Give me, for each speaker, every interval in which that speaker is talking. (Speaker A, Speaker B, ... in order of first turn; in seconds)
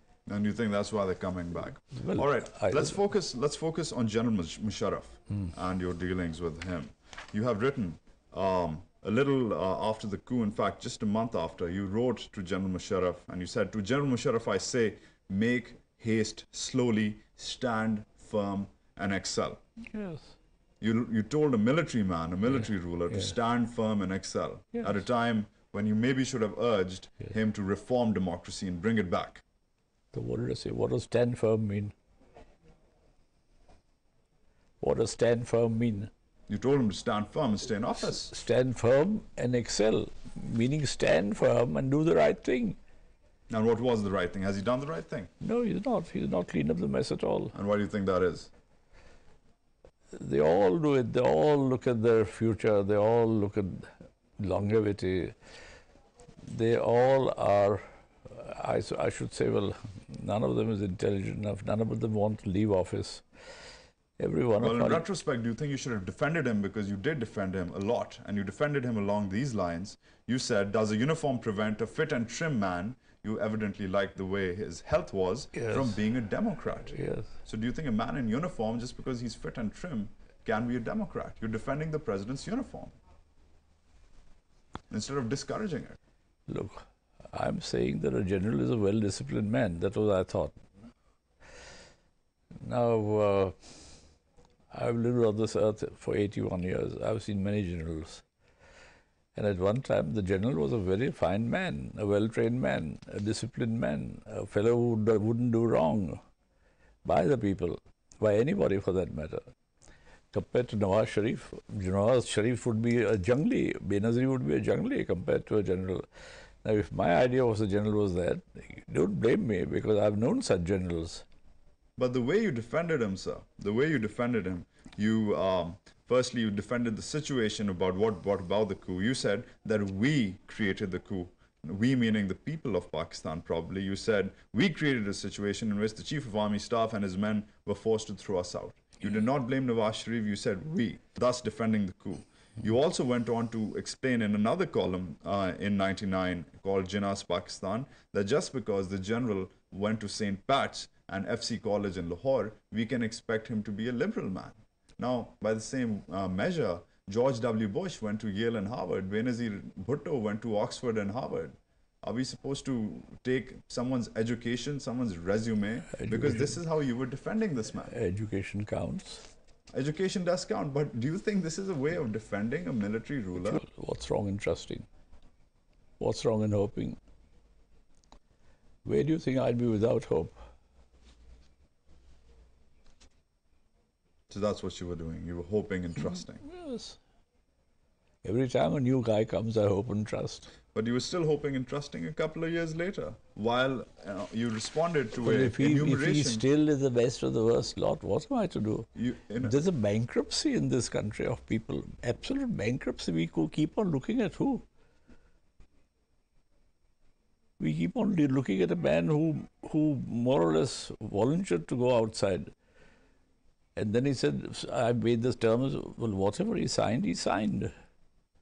Speaker A: 0.3-19.6, 20.8-29.4, 36.5-38.3, 43.5-45.3, 47.5-48.5, 64.6-83.0, 84.9-86.0, 122.0-167.9, 169.7-173.6, 184.3-186.4, 190.7-196.4, 199.0-199.6
Speaker B: 2.0-3.0, 19.9-20.4, 22.5-23.3, 30.1-31.9, 34.8-36.1, 38.2-42.8, 45.4-47.5, 50.1-55.4, 56.4-63.2, 64.2-65.0, 75.5-76.0, 76.9-77.3, 86.5-90.6, 92.6-93.6, 94.7-98.2, 99.3-106.2, 107.0-109.5, 110.3-116.1, 116.6-121.2, 165.9-166.6, 167.9-169.3, 173.4-174.9, 176.0-177.0, 178.8-180.4, 186.1-187.0, 188.2-190.5, 195.2-198.9, 199.4-204.6, 207.6-212.5, 213.8-217.7